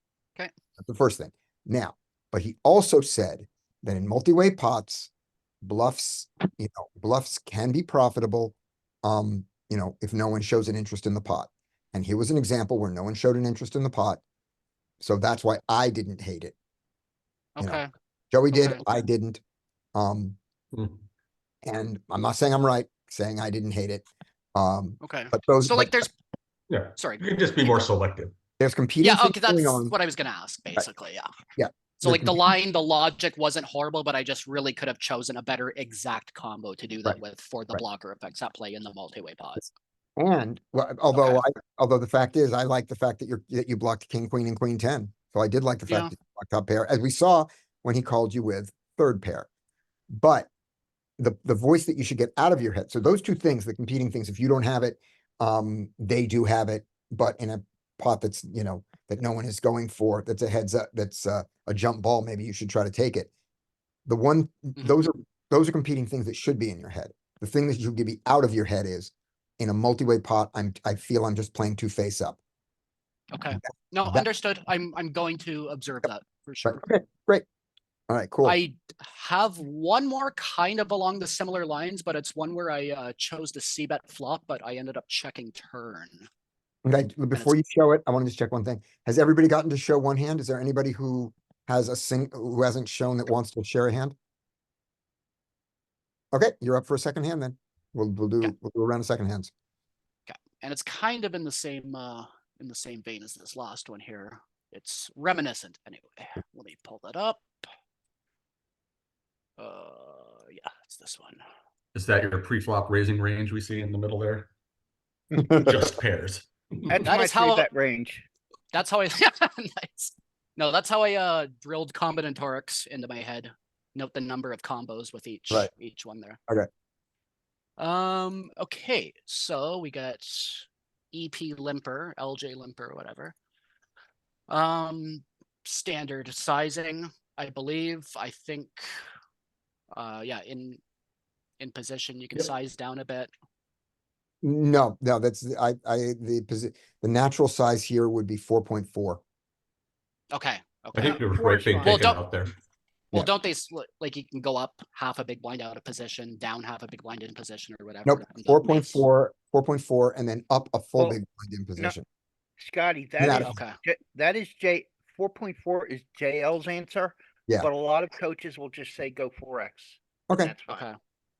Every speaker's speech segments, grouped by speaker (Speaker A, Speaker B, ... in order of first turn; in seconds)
Speaker A: 0.8-5.1, 5.6-14.2, 15.0-16.5, 17.6-19.4, 19.9-20.4, 21.6-26.1, 28.6-29.9, 31.6-32.5, 40.2-49.5, 50.1-50.5, 51.2-63.3, 64.0-72.4, 76.6-77.4, 78.1-78.6, 86.8-94.1, 96.3-99.5, 144.4-149.2, 158.1-162.0, 163.2-163.5, 170.3-170.5
Speaker B: 17.6-17.9, 18.5-18.8, 25.0-26.1, 27.0-27.9, 29.0-31.3, 32.0-39.7, 41.1-41.4, 73.3-76.8, 78.4-86.2, 87.3-87.6, 100.3-107.6, 109.6-111.4, 117.0-117.7, 118.7-126.4, 127.8-133.3, 134.5-139.0, 139.9-140.8, 141.6-143.3, 150.3-151.2, 151.8-152.2, 153.1-159.0, 163.3-163.8, 170.7-170.9
Speaker C: 20.7-21.0, 26.7-28.3, 111.9-114.5, 115.4-117.0, 150.9-152.5
Speaker D: 116.9-118.2, 151.0-152.1, 162.6-170.9